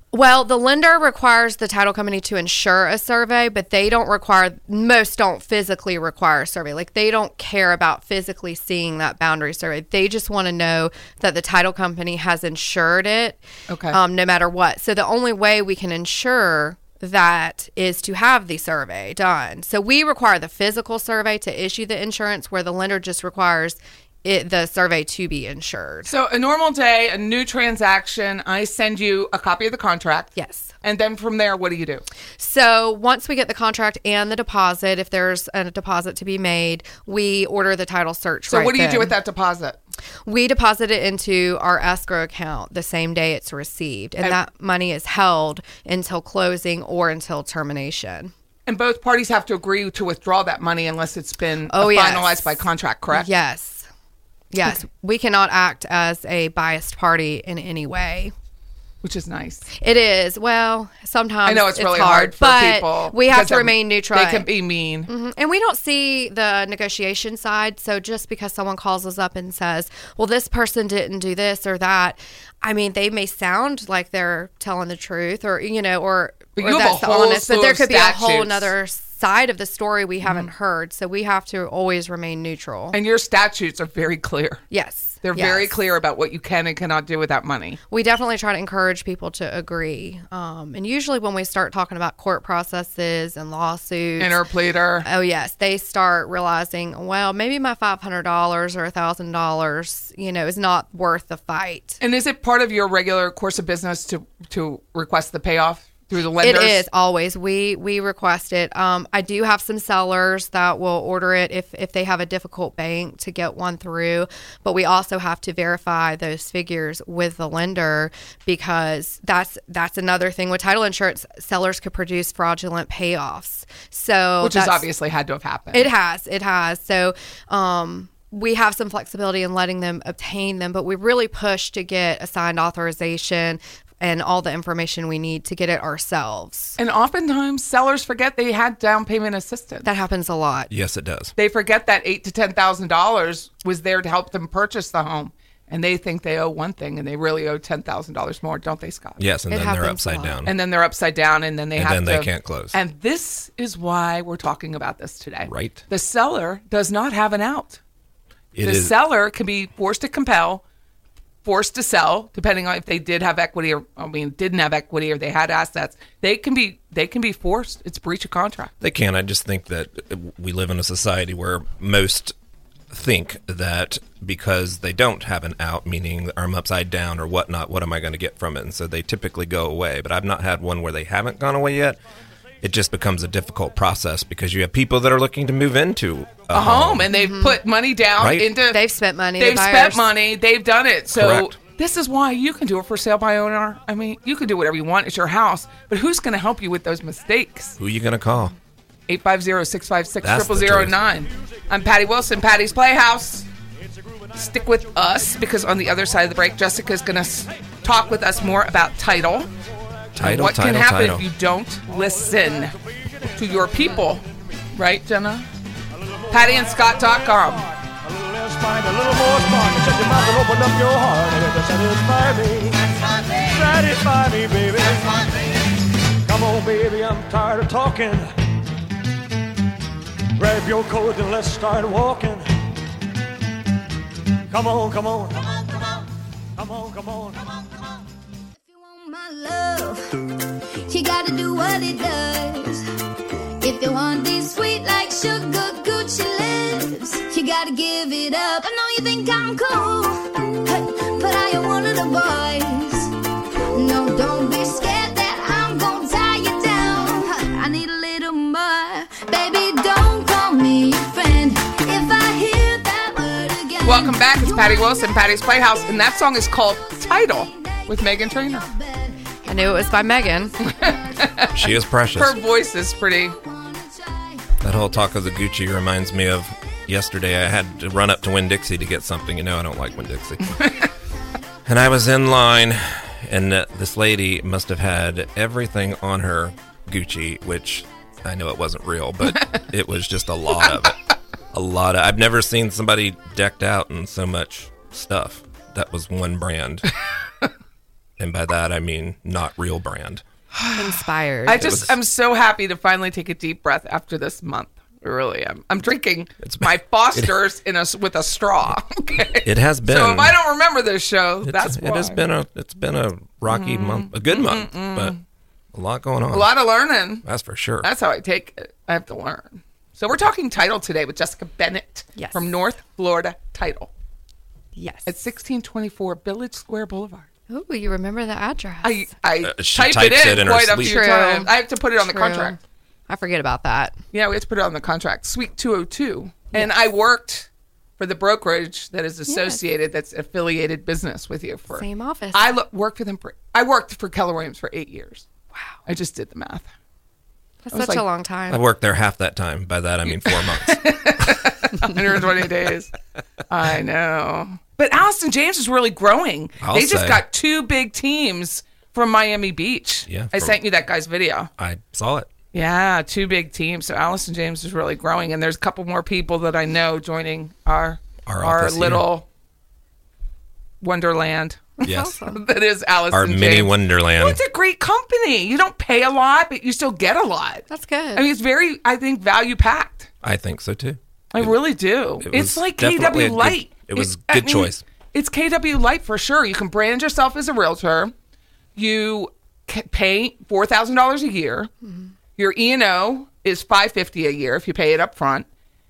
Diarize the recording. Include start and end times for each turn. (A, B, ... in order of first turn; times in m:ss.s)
0:00.1-0:26.1 A
0:13.7-0:14.0 B
0:26.1-0:32.0 B
0:30.4-0:30.7 A
0:32.4-0:39.1 A
0:38.5-0:39.8 B
0:40.3-0:48.3 A
0:48.7-0:53.3 B
0:51.7-0:53.9 A
0:54.5-0:58.3 A
0:59.0-0:59.7 B
0:59.8-1:04.5 A
1:01.5-1:05.1 B
1:05.1-1:23.0 A
1:16.6-1:18.7 B
1:20.2-1:20.5 B
1:22.9-1:24.6 B
1:24.7-1:25.7 A
1:25.2-1:27.8 B
1:27.9-1:34.4 A
1:34.2-1:35.1 B
1:35.0-1:42.0 A
1:42.0-1:46.8 B
1:46.4-2:04.8 A
2:04.4-2:05.9 B
2:05.7-2:16.8 A
2:16.8-2:19.9 B
2:19.8-2:20.7 A
2:20.7-2:21.3 C
2:21.4-2:29.2 B
2:29.2-2:30.5 C
2:29.5-2:30.4 A
2:30.4-2:37.8 B
2:31.8-2:32.8 C
2:35.4-2:35.8 C
2:38.5-2:38.9 C
2:38.6-2:40.6 B
2:41.4-2:48.7 B
2:48.8-2:52.4 C
2:52.9-3:02.0 C
3:02.6-3:07.1 C
3:06.5-3:08.8 B
3:07.1-3:07.6 A
3:08.2-3:08.5 C
3:08.7-3:10.1 A
3:09.4-3:17.8 B
3:11.1-3:11.6 C
3:17.8-3:18.6 C
3:19.1-3:23.5 B
3:20.2-3:21.0 C
3:24.4-3:29.5 B
3:30.2-3:31.3 C
3:30.2-3:32.7 B
3:33.4-3:35.5 B
3:36.3-3:37.7 B
3:38.0-3:42.8 D
3:43.3-3:45.2 D
3:46.3-3:48.3 D
3:50.4-3:52.5 D
3:54.5-3:55.4 D
3:56.6-3:57.4 D
3:58.6-4:00.1 E
4:00.9-4:02.8 E
4:03.6-4:13.1 E
4:13.7-4:26.1 E
4:23.8-4:28.7 B
4:26.8-4:31.5 E
4:29.5-4:30.6 A
4:30.6-4:33.4 B
4:31.5-4:32.4 C
4:33.1-4:34.5 E
4:34.6-4:40.6 C
4:40.6-4:40.9 B
4:41.7-4:51.0 C
4:51.5-4:56.9 C
4:58.2-5:00.2 C
5:00.6-5:12.2 B
5:00.8-5:01.8 A
5:01.6-5:01.9 C
5:06.4-5:07.3 C
5:09.4-5:10.4 C
5:11.4-5:15.2 C
5:13.5-5:15.2 B
5:15.7-5:16.5 C
5:16.3-5:17.2 B
5:17.2-5:17.9 C
5:17.8-5:23.9 B
5:22.2-5:22.5 A
5:24.8-5:25.1 A
5:25.1-5:27.3 B
5:27.5-5:29.1 A
5:28.8-5:32.6 B
5:29.4-5:31.1 C
5:30.8-5:32.6 A
5:33.1-5:34.0 A
5:34.1-5:37.5 B
5:38.0-5:45.2 B
5:39.3-5:39.6 A
5:41.7-5:42.5 A
5:45.9-5:46.7 B
5:47.7-5:48.6 A
5:47.7-5:48.0 B
5:48.5-5:51.2 C
5:50.2-5:52.9 B
5:53.5-6:01.5 B
5:56.6-5:57.2 C
6:00.1-6:00.6 C
6:01.6-6:02.3 C
6:02.5-6:09.2 B
6:08.3-6:09.1 C
6:10.8-6:17.6 B
6:11.8-6:12.4 A
6:11.8-6:12.2 C
6:13.1-6:14.4 C
6:17.7-6:18.2 A
6:18.2-6:20.1 B
6:20.2-6:21.6 C
6:21.3-6:28.1 B
6:22.2-6:24.8 C
6:28.8-6:31.7 B
6:32.4-6:35.5 B